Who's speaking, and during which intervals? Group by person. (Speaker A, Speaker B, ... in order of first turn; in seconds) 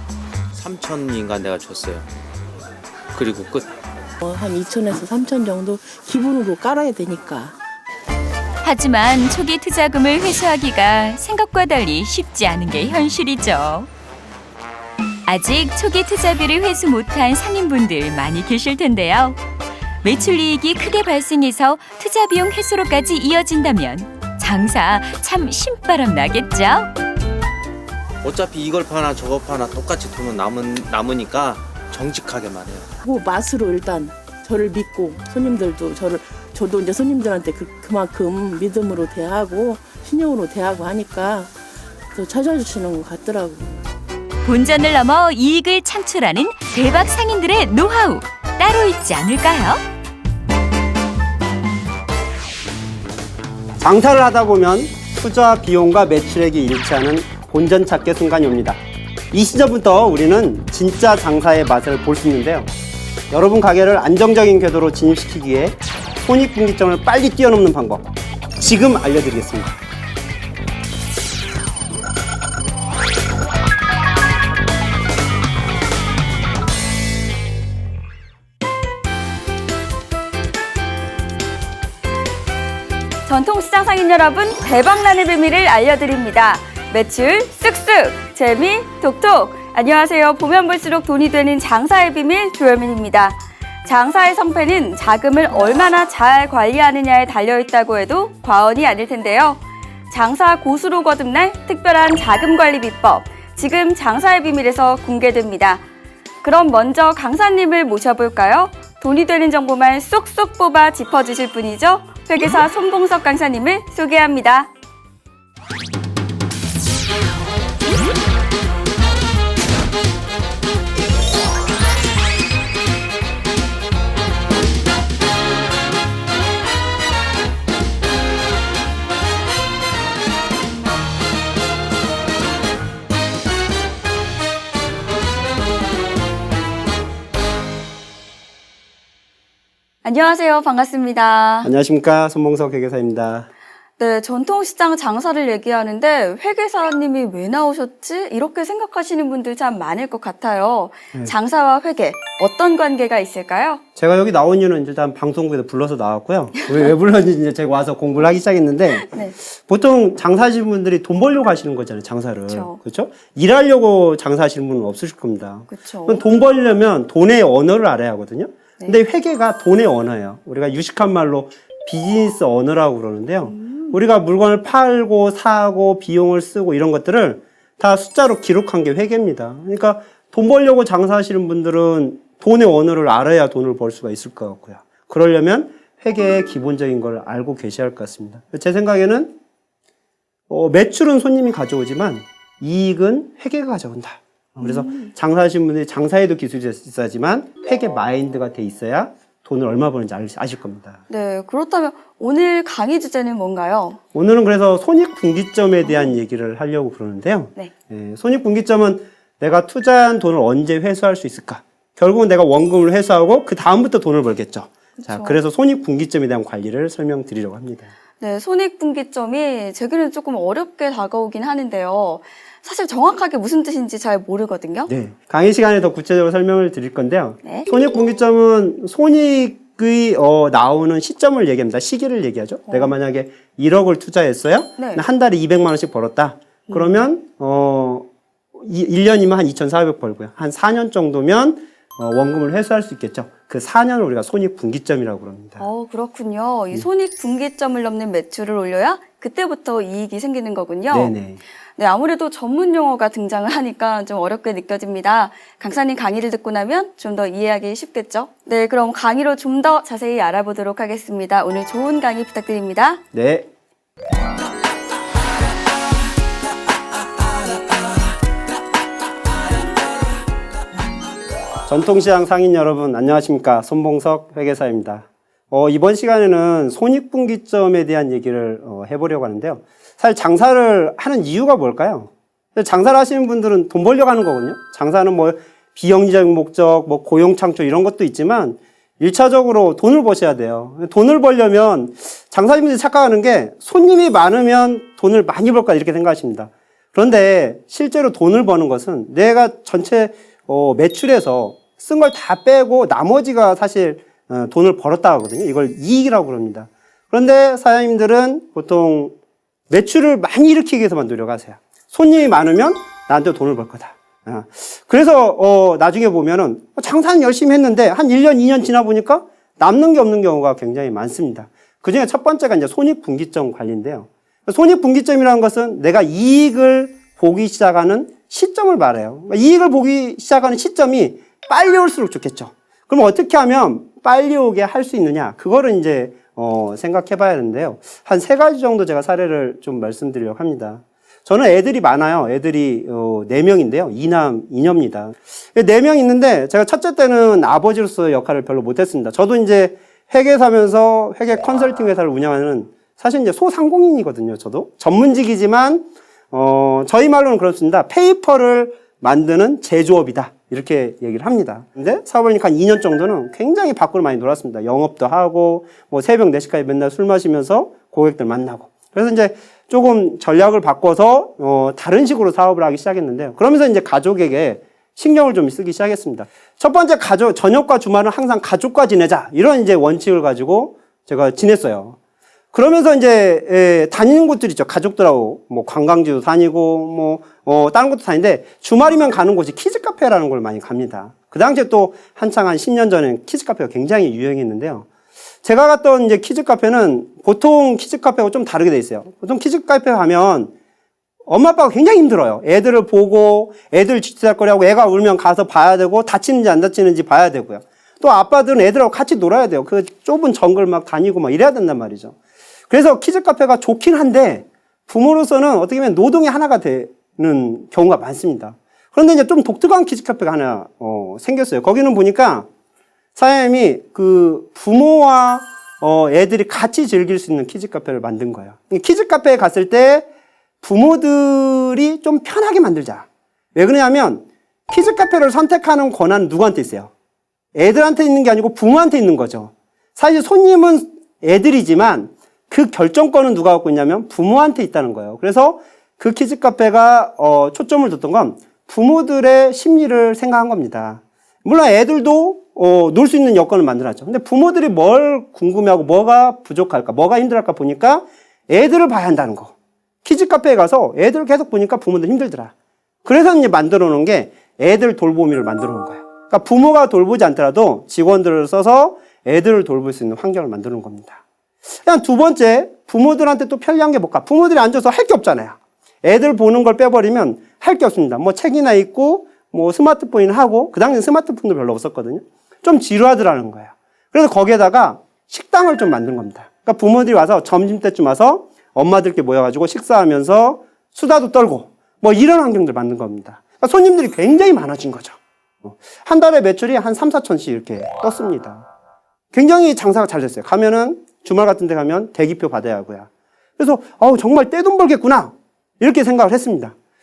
Speaker A: 0.5-2.0, 3.1-3.7, 28.2-32.9
Speaker B: 4.2-7.6, 33.0-43.8
Speaker C: 8.6-13.9, 15.3-19.4, 20.0-26.9, 44.4-49.8
Speaker D: 53.8-58.8, 59.3-62.7, 63.3-69.8, 141.6-143.5, 153.9-189.3, 190.5-201.0, 204.1-217.9, 224.9-245.7, 250.9-251.4, 263.1-263.5, 271.7-309.1, 309.7-382.0, 382.5-394.9, 395.4-400.5, 401.2-412.1, 412.7-422.5, 423.1-430.1, 430.6-436.9, 437.5-462.5, 463.0-471.2, 471.8-498.7, 499.3-506.7
Speaker E: 83.2-105.8, 106.4-114.7, 140.0-141.7, 144.0-153.8, 159.0-159.3, 162.5-162.8, 165.7-166.2, 173.4-174.0, 194.6-195.1, 201.1-204.0, 205.9-206.1, 215.0-215.4, 218.2-224.9, 232.7-232.9, 234.8-235.0, 236.7-237.0, 245.6-251.1, 251.8-263.0